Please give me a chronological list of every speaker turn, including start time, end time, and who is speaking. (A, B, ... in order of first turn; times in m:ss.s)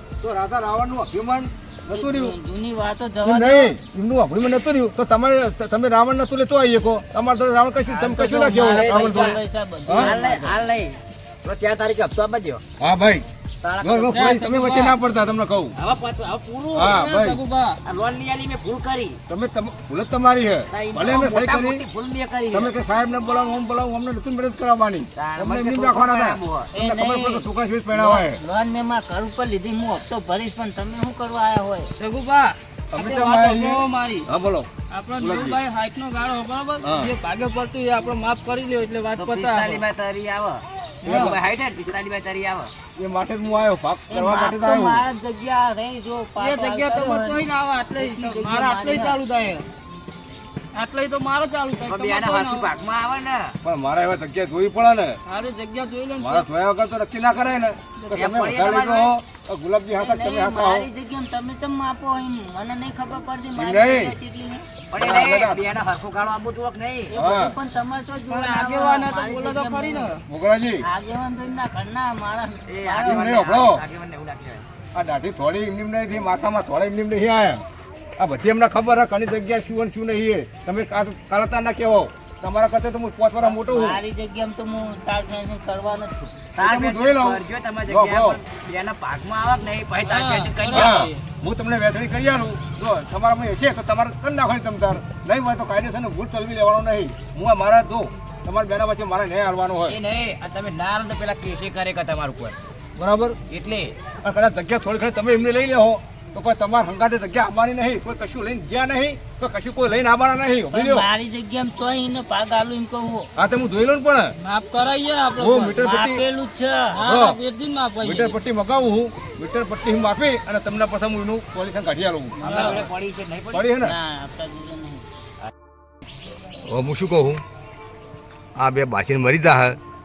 0:00.2-0:02.4 A
0:01.9-0:03.8 B
0:03.2-0:10.1 A
0:07.9-0:10.6 B
0:08.6-0:09.4 C
0:09.9-0:12.6 C
0:12.8-0:13.3 A
0:13.6-0:14.2 C
0:13.8-0:15.7 A
0:14.1-0:15.0 D
0:15.8-0:17.0 C
0:16.7-0:17.4 A
0:16.8-0:17.8 D
0:17.8-0:19.2 C
0:19.3-0:21.8 A
0:20.7-0:22.8 C
0:22.5-0:28.4 A
0:25.2-0:26.7 C
0:26.7-0:31.9 B
0:32.0-0:34.3 D
0:32.9-0:35.6 A
0:34.9-0:39.8 D
0:36.8-0:37.1 A
0:39.2-0:42.7 C
0:41.0-0:41.4 D
0:41.0-0:41.4 A
0:43.0-0:45.0 A
0:44.1-0:49.2 B
0:46.4-0:49.6 D
0:50.7-0:52.7 D
0:51.8-0:53.6 C
0:53.6-0:55.2 A
0:55.3-0:56.5 D
0:56.2-1:00.9 A
0:58.1-0:59.1 C
1:00.0-1:04.7 B
1:03.6-1:04.2 A
1:04.9-1:07.2 C
1:05.0-1:05.6 A
1:07.1-1:10.1 B
1:07.1-1:07.6 A
1:08.3-1:10.2 D
1:10.3-1:10.8 A
1:10.8-1:13.4 B
1:12.7-1:14.6 C
1:13.0-1:13.8 A
1:14.9-1:17.6 A
1:18.2-1:24.0 A
1:23.5-1:26.3 B
1:26.6-1:31.0 C
1:26.6-1:28.4 A
1:30.0-1:31.2 D
1:30.7-1:40.0 A
1:39.9-1:42.6 C
1:43.0-1:43.4 A
1:43.5-1:44.0 C
1:44.2-1:51.1 A
1:50.7-1:53.3 B
1:53.4-1:54.3 A
1:54.4-1:55.8 D
1:55.4-1:56.2 A
1:55.7-1:57.0 B
1:56.9-1:58.4 D
1:57.0-1:57.4 A
1:58.0-2:02.4 A
2:02.4-2:02.8 B
2:02.4-2:03.7 C
2:02.4-2:02.8 D
2:03.5-2:04.0 A
2:03.8-2:05.1 B
2:06.6-2:07.4 A
2:08.6-2:09.8 A